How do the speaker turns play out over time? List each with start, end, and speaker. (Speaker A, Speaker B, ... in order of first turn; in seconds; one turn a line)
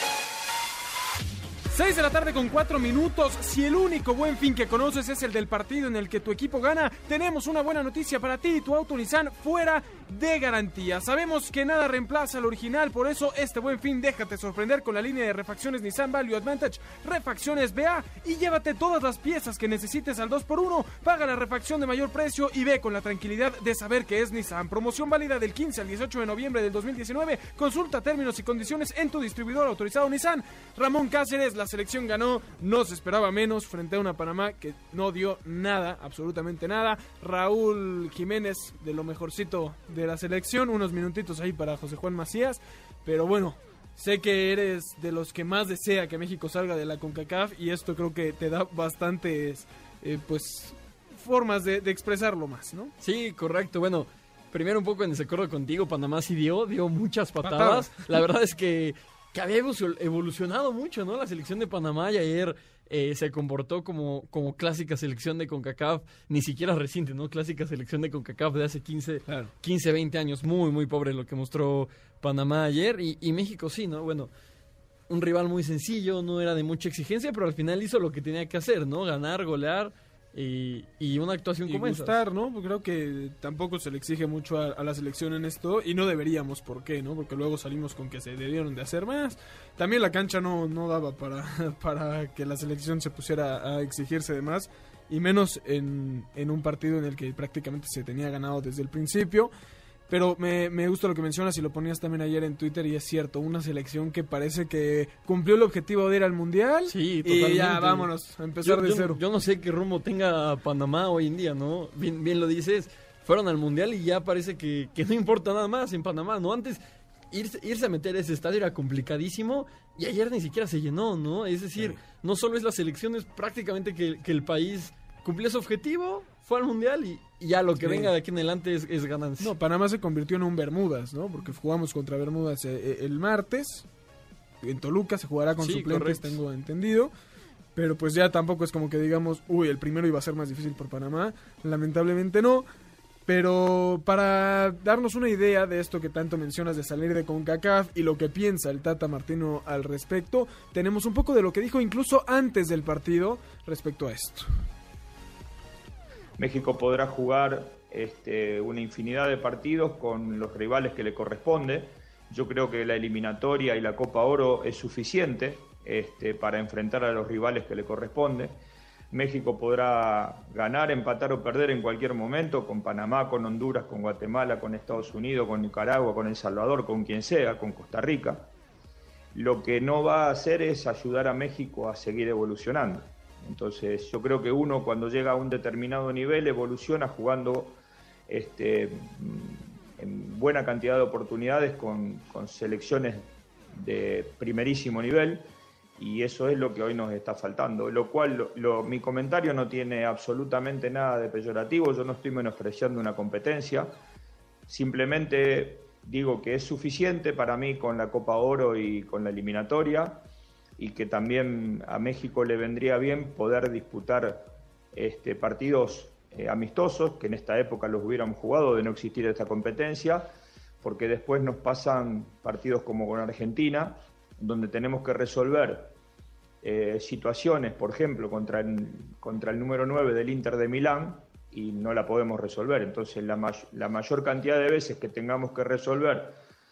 Speaker A: 1.7-52.9
Speaker B: 53.0-74.3
Speaker A: 57.4-58.0
Speaker B: 75.1-82.2
Speaker A: 81.7-99.5
Speaker A: 100.1-109.2
Speaker B: 106.9-108.1
Speaker B: 108.6-116.8
Speaker B: 117.3-129.5
Speaker A: 127.8-128.1
Speaker A: 129.4-133.9
Speaker A: 134.6-137.1
Speaker B: 135.6-136.4
Speaker A: 137.8-142.7
Speaker A: 143.3-154.5
Speaker C: 156.4-168.6
Speaker C: 169.1-178.5
Speaker C: 179.3-204.0
Speaker C: 204.7-210.3
Speaker C: 210.8-225.9
Speaker C: 226.6-236.4